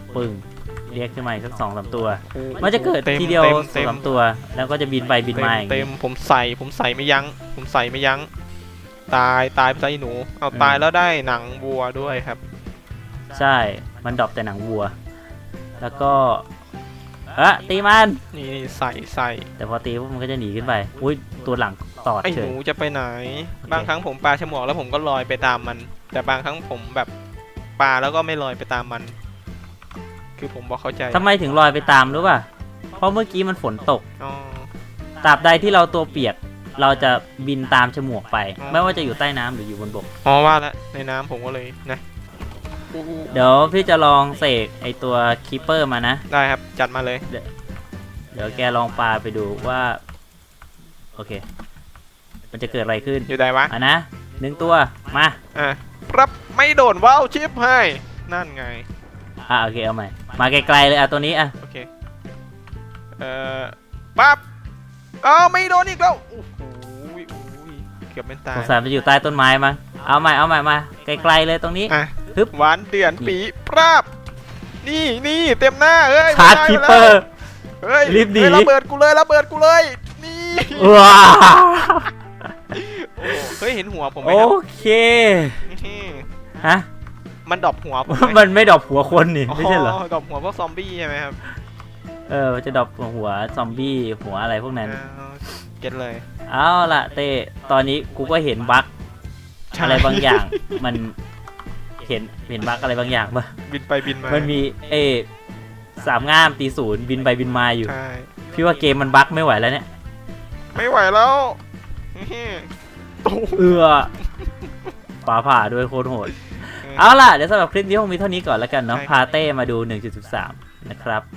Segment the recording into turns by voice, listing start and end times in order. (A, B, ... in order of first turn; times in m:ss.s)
0:00.1-0:05.9 A
0:02.3-0:04.0 B
0:05.3-0:08.3 B
0:09.1-0:12.4 B
0:10.5-0:10.8 A
0:13.3-0:15.0 A
0:15.8-0:16.5 A
0:17.3-0:18.2 A
0:18.3-0:19.5 B
0:19.6-0:22.6 A
0:22.2-0:27.1 B
0:23.6-0:23.9 A
0:27.8-0:29.2 B
0:30.4-0:31.3 B
0:31.1-0:32.5 A
0:33.0-0:34.0 A
0:34.2-0:34.7 B
0:35.2-0:40.1 A
0:38.6-0:39.1 B
0:40.2-0:42.0 B
0:42.9-0:43.3 B
0:43.3-0:46.2 A
0:46.3-0:47.3 B
0:48.3-0:50.0 A
0:51.2-0:51.4 A
0:52.5-0:55.4 A
0:53.3-0:53.7 B
0:55.5-0:58.9 B
0:59.5-1:01.5 A
1:01.6-1:01.9 B
1:03.2-1:04.4 B
1:05.2-1:08.8 B
1:08.5-1:12.5 A
1:11.9-1:14.1 B
1:14.8-1:17.2 B
1:16.3-1:17.2 A
1:17.8-1:21.1 B
1:18.0-1:18.7 A
1:20.7-1:22.1 A
1:22.7-1:24.5 B
1:23.2-1:23.5 A
1:24.2-1:25.7 A
1:25.6-1:26.3 B
1:26.6-1:26.9 A
1:27.5-1:28.4 B
1:28.1-1:30.0 A
1:29.5-1:31.4 B
1:32.3-1:35.0 A
1:34.8-1:36.2 B
1:36.5-1:38.9 A
1:39.7-1:40.8 B
1:39.8-1:41.2 A
1:42.0-1:43.5 A
1:43.7-1:44.5 B
1:44.2-1:45.3 A
1:46.0-1:47.9 A
1:47.8-1:48.3 B
1:48.5-1:49.9 A
1:50.7-1:51.6 B
1:52.1-1:52.7 B
1:53.2-1:53.7 B
1:53.5-1:54.1 A
1:55.2-2:01.2 A
1:56.8-1:57.1 B